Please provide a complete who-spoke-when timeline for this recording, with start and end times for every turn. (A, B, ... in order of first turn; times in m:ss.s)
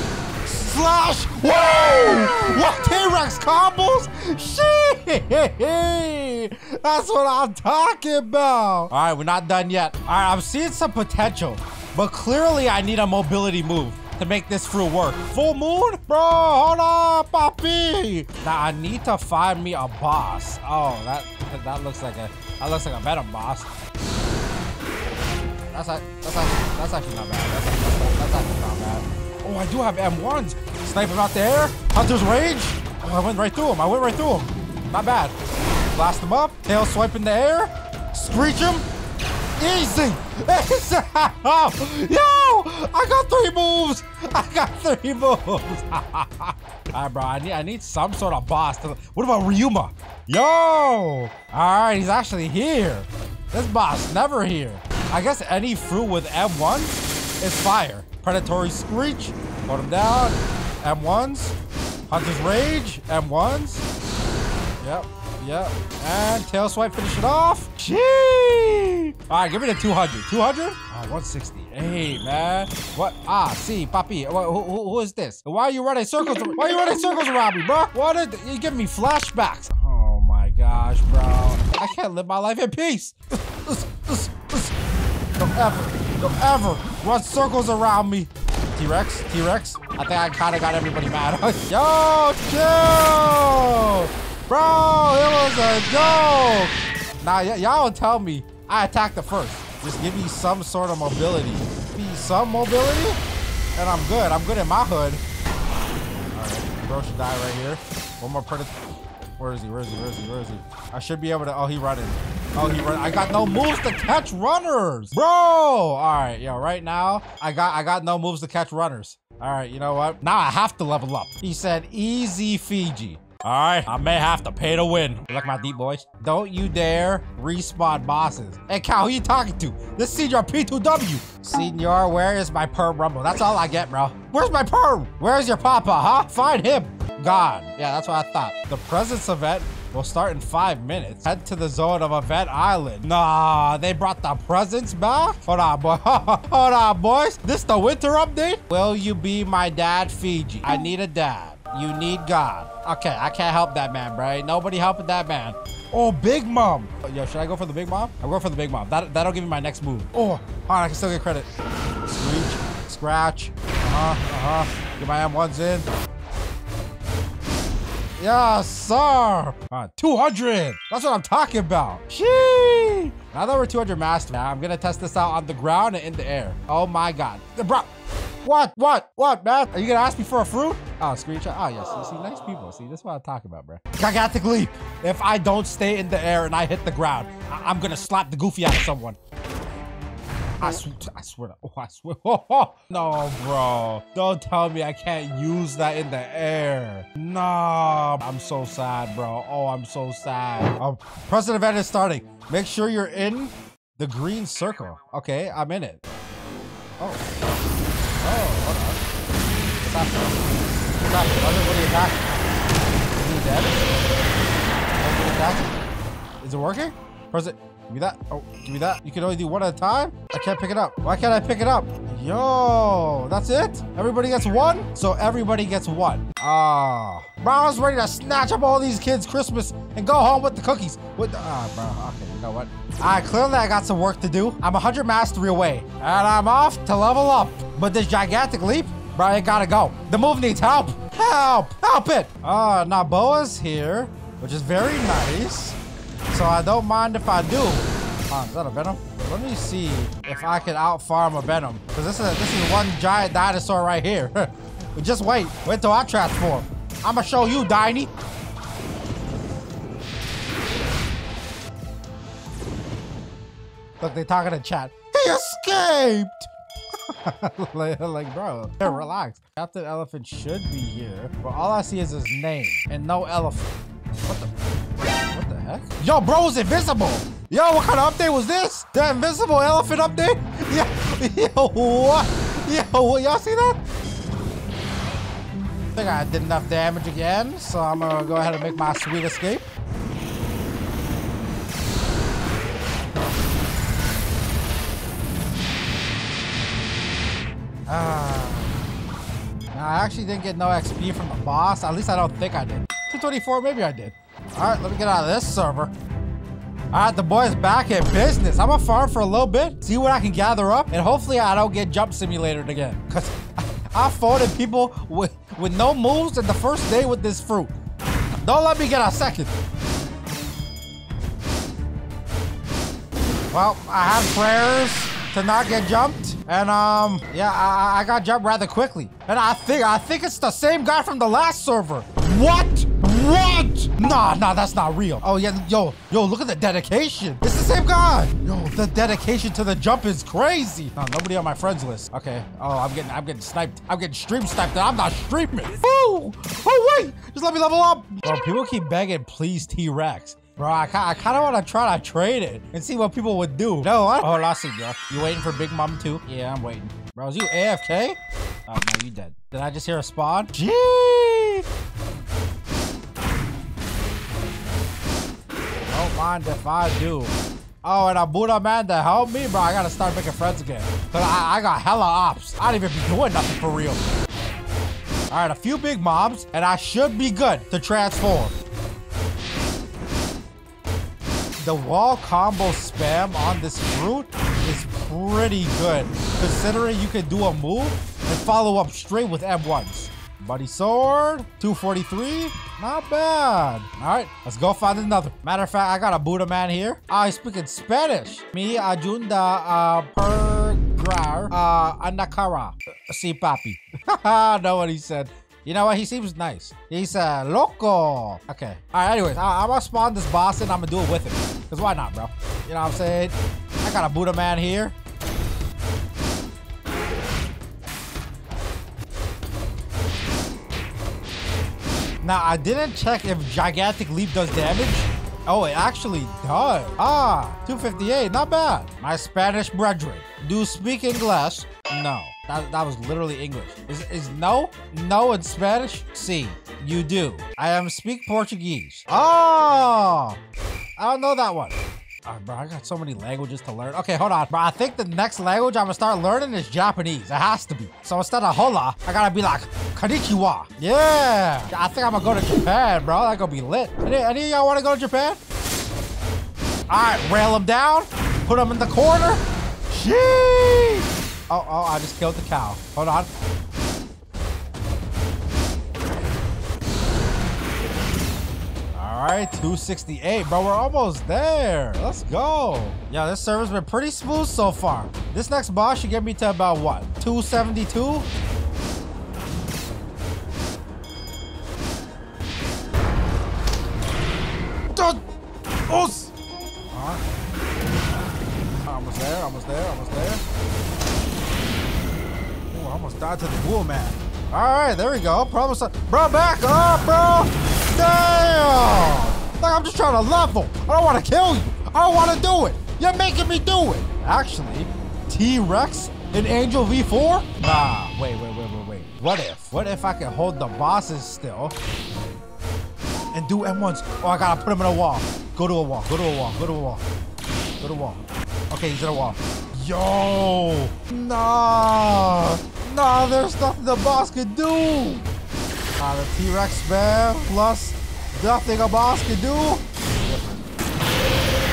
0:00.4-0:23.7 A
0:25.7-0:35.3 A
0:35.9-0:38.8 A
0:39.6-1:01.6 A
1:02.1-1:03.8 A
1:04.8-1:24.7 A
1:25.4-1:43.2 A
1:43.8-1:45.2 A
1:46.3-1:48.7 A
1:49.4-2:41.5 A
2:42.0-2:45.9 A
2:48.2-2:57.9 A
2:58.4-3:09.2 A
3:10.6-3:26.0 A
3:28.2-3:29.0 A
3:29.8-3:30.4 A
3:31.0-3:32.4 A
3:33.1-3:33.9 A
3:35.0-3:35.7 A
3:36.4-4:05.8 A
4:06.3-4:18.1 A
4:24.0-4:26.5 A
4:27.1-4:33.7 A
4:35.0-4:43.8 A
4:45.9-4:49.6 A
4:57.9-4:58.7 A
4:59.7-5:05.9 A
5:06.9-5:17.7 A
5:18.4-5:19.5 A
5:23.5-6:01.6 A
6:05.9-6:14.0 A
6:15.3-6:18.5 A
6:21.6-6:54.9 A
7:02.2-7:20.4 A
7:21.0-7:35.4 A
7:36.9-7:43.3 A
7:48.9-7:58.2 A
8:04.9-8:05.2 A
8:05.9-8:06.3 A
8:06.9-8:07.2 A
8:08.8-8:10.4 A
8:12.7-8:31.7 A
8:33.3-8:37.0 A
8:37.8-8:45.2 A
8:46.0-8:50.6 A